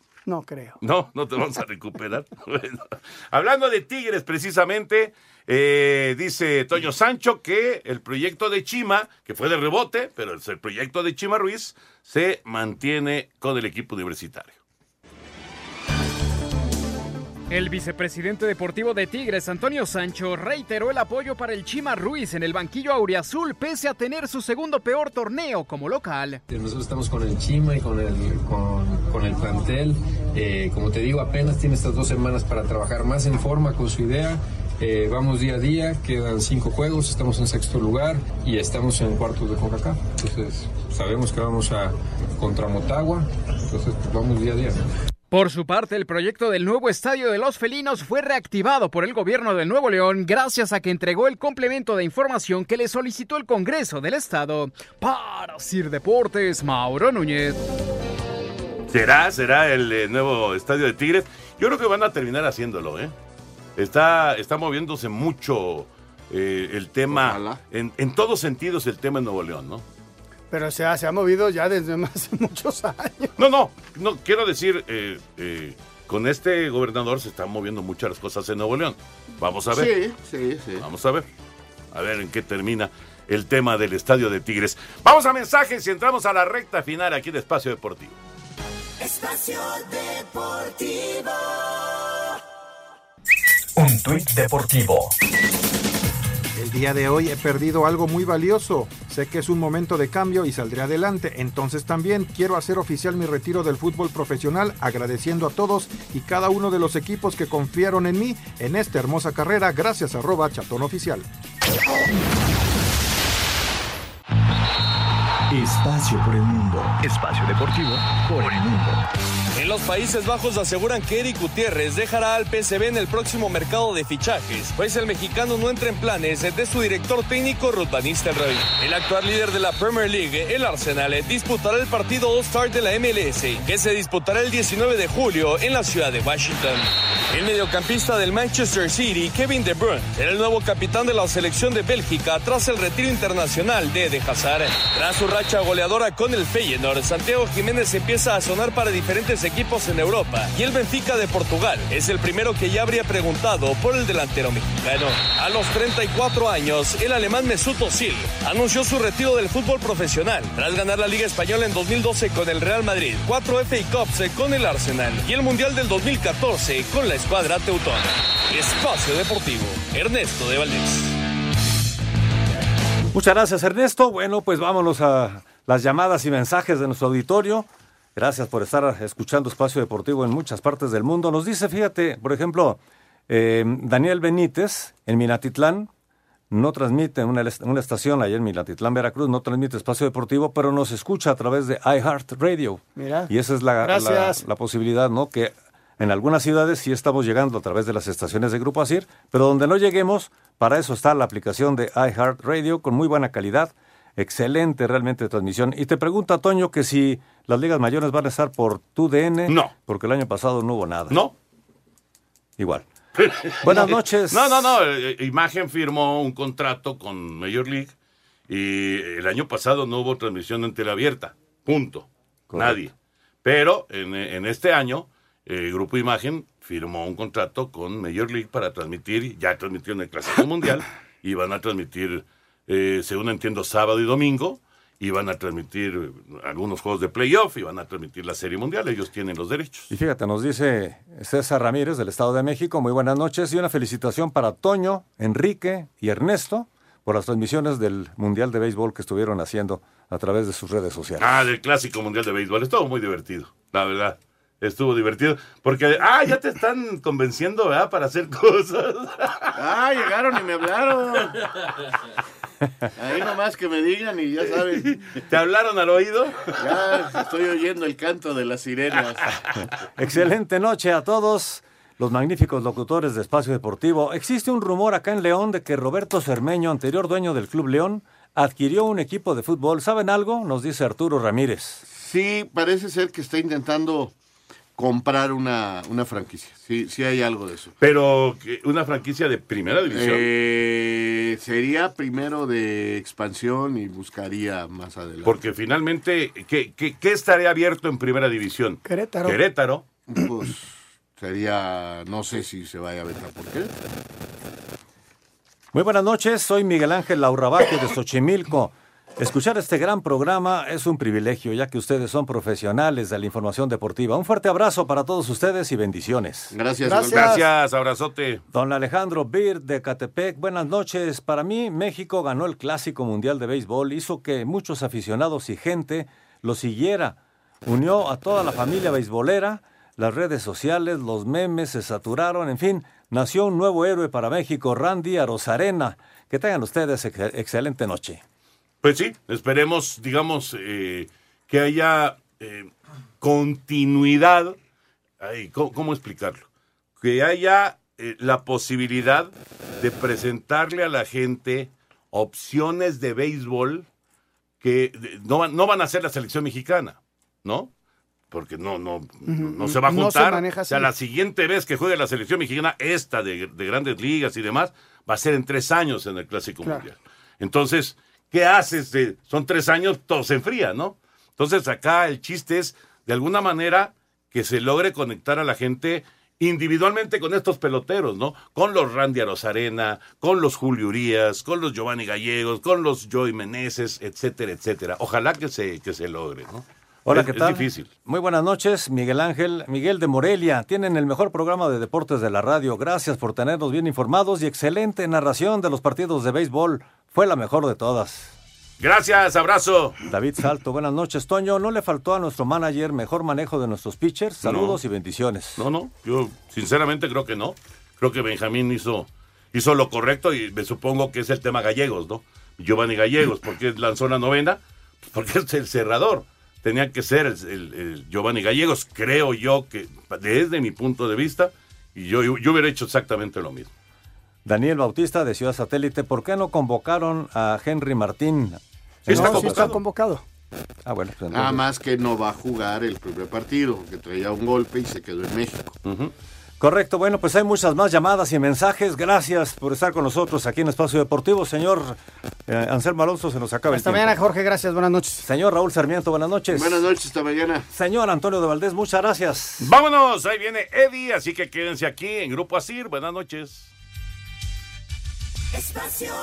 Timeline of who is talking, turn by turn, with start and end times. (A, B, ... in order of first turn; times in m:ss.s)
0:00.3-0:00.8 A
0:00.8-0:14.6 B
0:17.5-0:26.4 C
0:26.5-0:44.8 D
0:45.3-0:57.6 C
0:58.9-1:03.1 B
1:03.8-1:09.8 B
1:07.1-1:07.6 E
1:10.5-1:13.3 A
1:13.4-1:19.9 B
1:19.7-1:20.8 E
1:20.8-1:21.3 B
1:21.9-1:28.2 B
1:29.0-1:31.1 F
1:33.8-1:35.1 F
1:36.6-1:51.3 G
1:55.5-1:59.0 F
1:59.5-2:51.2 H
2:53.1-3:05.9 I
3:06.5-3:31.2 I
3:13.0-3:14.4 A
3:29.5-3:29.7 B
3:32.6-3:32.9 I
3:33.2-3:37.9 B
3:33.6-3:34.7 I
3:38.5-3:42.9 B
3:42.5-3:42.8 I
3:43.4-3:59.9 B
3:59.9-4:11.4 I
4:11.2-4:19.5 B
4:19.5-4:21.4 E
4:23.0-4:25.0 E
4:25.2-4:26.5 B
4:26.6-4:29.4 E
4:30.0-4:41.8 I
4:41.9-4:44.1 E
4:44.8-4:47.7 E
4:47.8-4:50.3 B
4:49.9-4:55.4 E
4:55.2-4:59.8 B
4:58.8-4:59.4 A
5:00.1-5:03.8 E
5:05.7-5:16.5 I
5:16.5-5:17.4 E
5:16.9-5:17.4 A
5:17.1-5:18.4 B
5:18.5-5:38.2 I
5:38.8-5:44.6 B
5:45.2-5:46.5 B
5:47.0-5:53.9 B
5:54.6-5:57.7 B
5:58.3-6:27.9 B
5:59.3-6:00.9 A
6:27.1-6:38.3 I
6:38.8-6:40.0 B
6:40.1-6:45.6 I
6:44.4-6:44.8 B
6:45.6-7:03.7 B
7:04.5-7:09.8 I
7:09.1-7:09.8 B
7:09.1-7:10.2 A
7:10.9-7:11.6 I
7:11.3-7:15.8 E
7:15.9-7:16.1 B
7:16.6-7:24.2 I
7:23.7-7:25.3 A
7:25.2-7:26.8 I
7:26.5-7:27.7 E
7:27.7-7:29.7 I
7:29.6-7:33.7 B